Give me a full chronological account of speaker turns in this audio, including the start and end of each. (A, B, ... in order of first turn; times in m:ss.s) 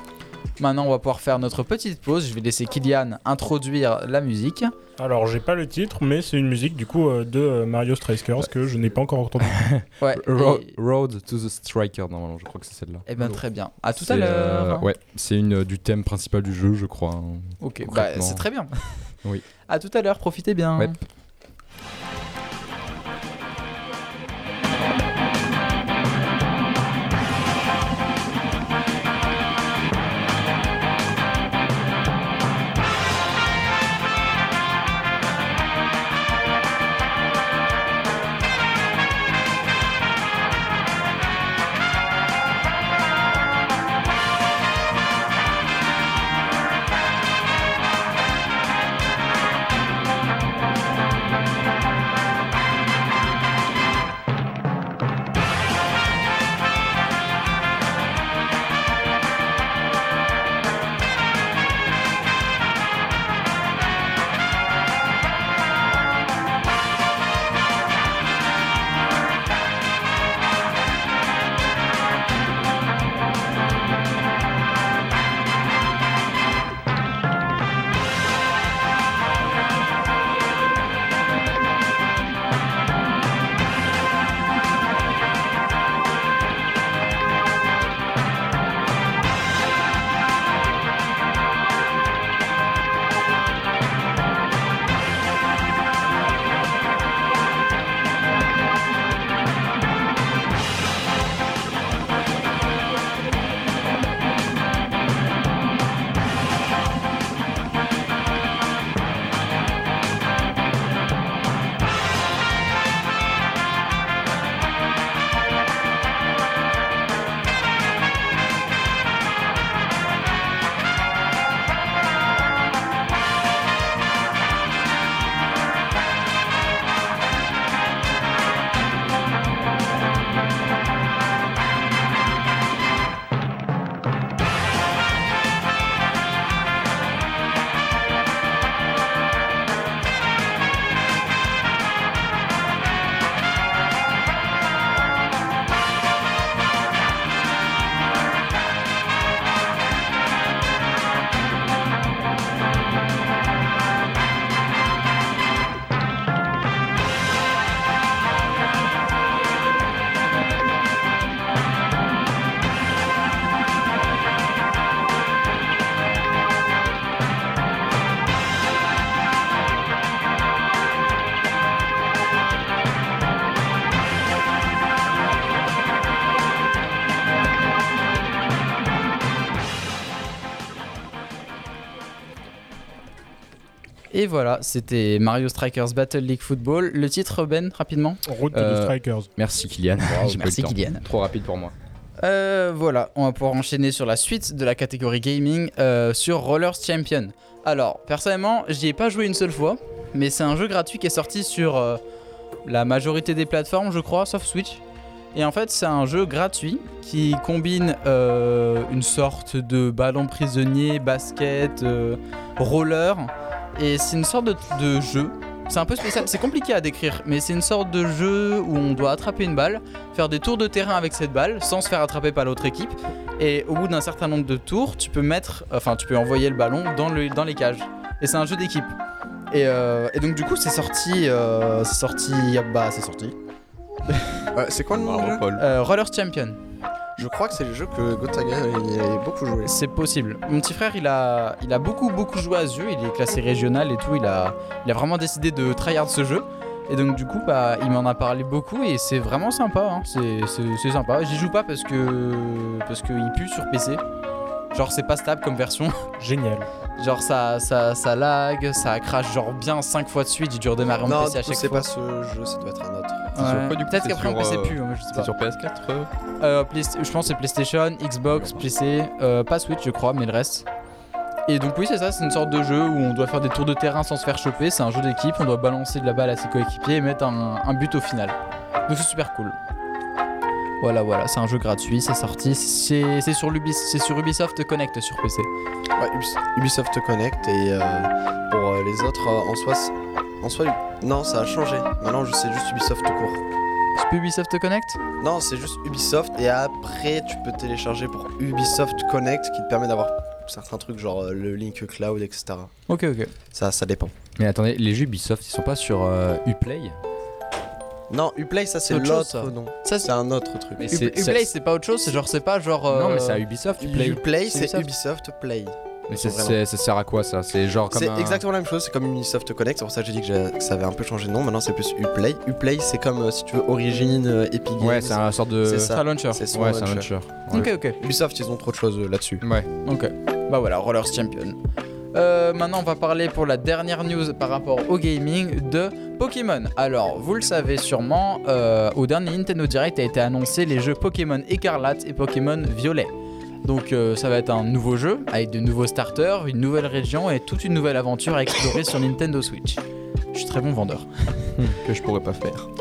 0:00.6-0:04.7 A
0:05.0-0:09.6 B
0:09.4-0:13.4 C
0:10.0-0:10.7 A
0:13.1-0:14.9 A
0:14.0-0:18.4 C
0:17.6-0:19.0 A
0:19.7-0:21.0 A
3:04.1-3:08.2 A
3:08.2-3:09.3 B
3:08.5-3:11.7 C
3:10.1-3:11.0 A
3:12.2-3:22.0 A
3:22.6-3:24.8 A
3:25.3-3:48.9 A
3:49.5-3:53.4 A
3:54.1-3:54.4 A
3:54.5-3:55.4 D
3:54.9-3:55.6 E
3:55.6-3:56.6 A
3:57.2-3:59.7 D
3:59.6-4:14.0 A
4:14.7-4:16.1 A
4:16.2-4:16.7 B
4:17.0-4:21.9 A
4:21.0-4:23.3 D
4:23.3-4:25.3 A
4:23.3-4:26.1 E
4:26.4-4:30.6 A
4:28.3-4:28.6 E
4:31.5-4:39.6 A
4:40.8-4:45.5 A
4:46.0-4:53.4 D
4:54.0-4:55.0 A
4:55.2-5:02.7 D
5:02.9-5:03.3 A
5:03.5-5:04.1 D
5:04.4-5:07.0 C
5:08.1-5:10.9 D
5:08.8-5:10.1 A
5:10.8-5:11.5 C
5:10.8-5:13.4 A
5:12.9-5:14.2 C
5:13.8-5:16.6 D
5:14.4-5:14.9 A
5:16.1-5:18.4 C
5:17.9-5:29.4 D
5:24.8-5:27.7 C
5:25.9-5:26.4 A
5:27.5-5:28.0 A
5:29.4-5:29.7 C
5:29.8-5:31.6 A
5:32.1-5:43.1 A
5:43.6-5:49.8 A
5:50.3-5:51.6 A
5:51.8-5:52.7 E